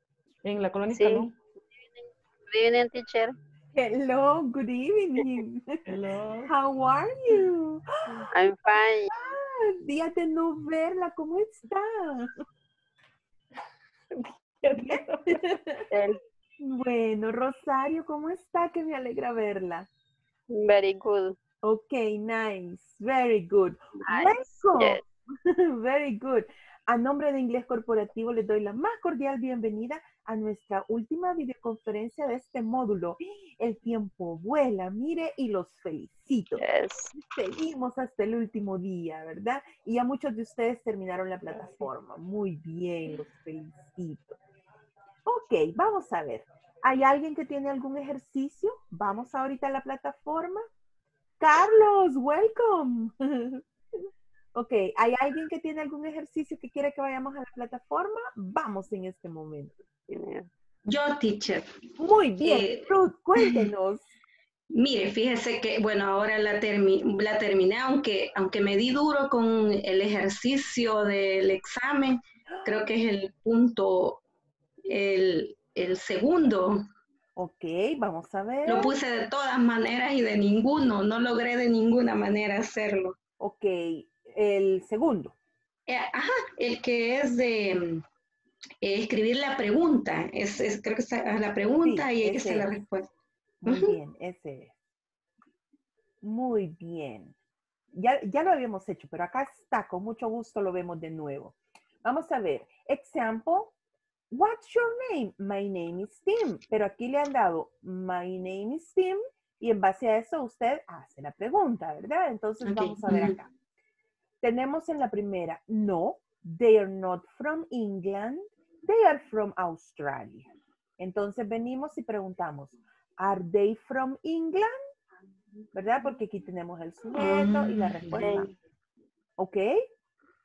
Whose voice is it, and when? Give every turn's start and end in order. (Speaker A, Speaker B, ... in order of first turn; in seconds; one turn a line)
Speaker A: 0.4-1.3
Speaker B: 0.9-1.3
Speaker B: 2.5-3.4
Speaker C: 3.8-5.8
Speaker A: 5.9-6.5
Speaker C: 6.5-7.8
Speaker B: 8.3-9.1
Speaker C: 9.1-12.3
Speaker A: 14.1-15.5
Speaker C: 14.8-15.8
Speaker B: 15.9-16.2
Speaker C: 16.6-19.9
Speaker B: 20.5-21.4
Speaker C: 21.6-36.6
Speaker B: 24.1-25.0
Speaker B: 36.6-37.1
Speaker C: 37.1-44.4
Speaker C: 45.3-50.7
Speaker C: 51.4-53.6
Speaker C: 54.5-59.7
Speaker B: 60.1-60.5
Speaker D: 60.9-61.7
Speaker C: 62.0-64.0
Speaker D: 62.4-62.9
Speaker D: 64.7-74.2
Speaker D: 74.9-76.9
Speaker C: 77.4-78.9
Speaker D: 78.7-83.2
Speaker C: 83.4-85.3
Speaker D: 85.9-88.0
Speaker D: 88.8-93.1
Speaker C: 91.8-92.8
Speaker C: 93.6-94.7
Speaker D: 93.7-94.0
Speaker C: 96.2-97.3
Speaker C: 98.0-103.7
Speaker C: 104.3-113.5
Speaker D: 112.6-113.4
Speaker C: 114.4-120.5
Speaker C: 121.0-124.8
Speaker C: 125.7-128.5
Speaker D: 127.2-128.4
Speaker B: 128.2-128.5
Speaker C: 129.4-129.8